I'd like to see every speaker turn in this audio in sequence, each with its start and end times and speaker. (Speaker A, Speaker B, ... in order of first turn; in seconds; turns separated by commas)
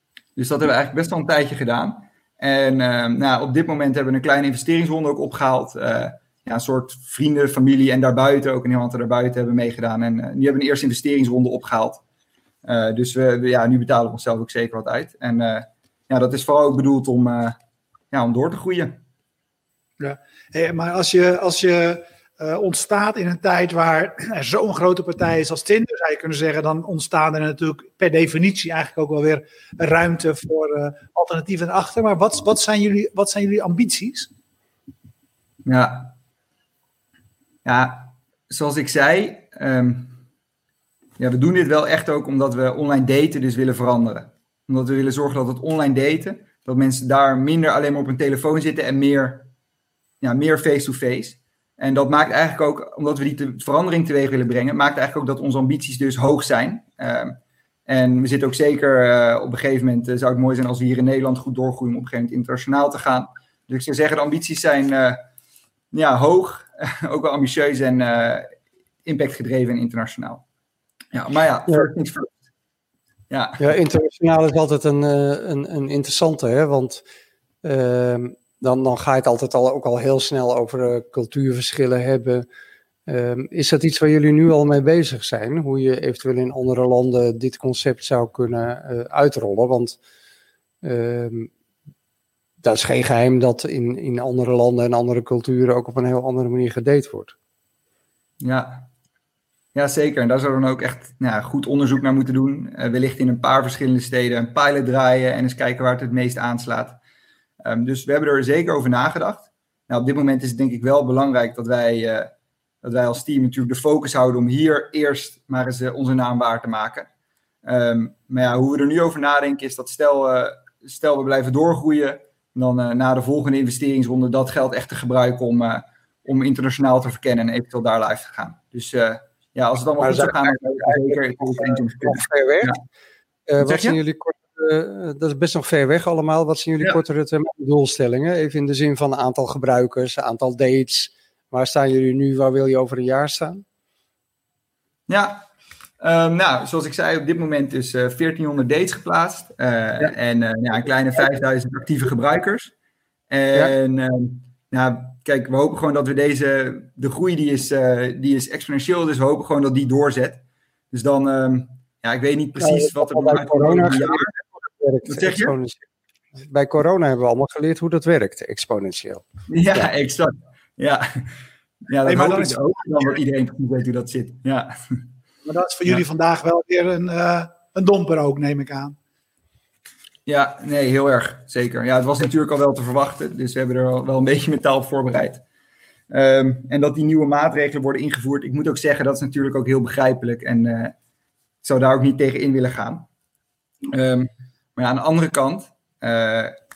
Speaker A: 0.4-12.0, Speaker A: 12.6-17.6, Speaker A: 18.1-19.0, Speaker B: 20.0-34.3, Speaker A: 35.7-36.1, Speaker A: 37.6-40.2, Speaker A: 41.2-49.5, Speaker A: 50.2-65.2, Speaker A: 65.9-68.5, Speaker A: 69.0-70.4, Speaker A: 71.1-72.3, Speaker A: 73.3-73.7, Speaker C: 73.6-77.0, Speaker C: 77.6-82.5, Speaker C: 83.1-90.0, Speaker C: 90.8-91.5, Speaker C: 92.6-97.3, Speaker A: 98.4-98.9, Speaker A: 99.8-107.0, Speaker A: 107.6-112.3, Speaker A: 112.8-117.1, Speaker A: 117.6-132.8, Speaker C: 130.0-132.8, Speaker C: 133.5-143.6, Speaker A: 133.6-134.0, Speaker A: 145.1-145.4, Speaker A: 146.0-152.7, Speaker A: 153.3-164.3, Speaker C: 162.6-165.8, Speaker A: 165.1-165.5, Speaker C: 166.4-169.9, Speaker A: 169.5-171.2, Speaker A: 171.9-175.0, Speaker B: 172.1-172.9, Speaker B: 175.4-179.0, Speaker A: 180.3-185.4, Speaker A: 186.1-190.9, Speaker A: 191.6-193.1, Speaker A: 193.9-196.6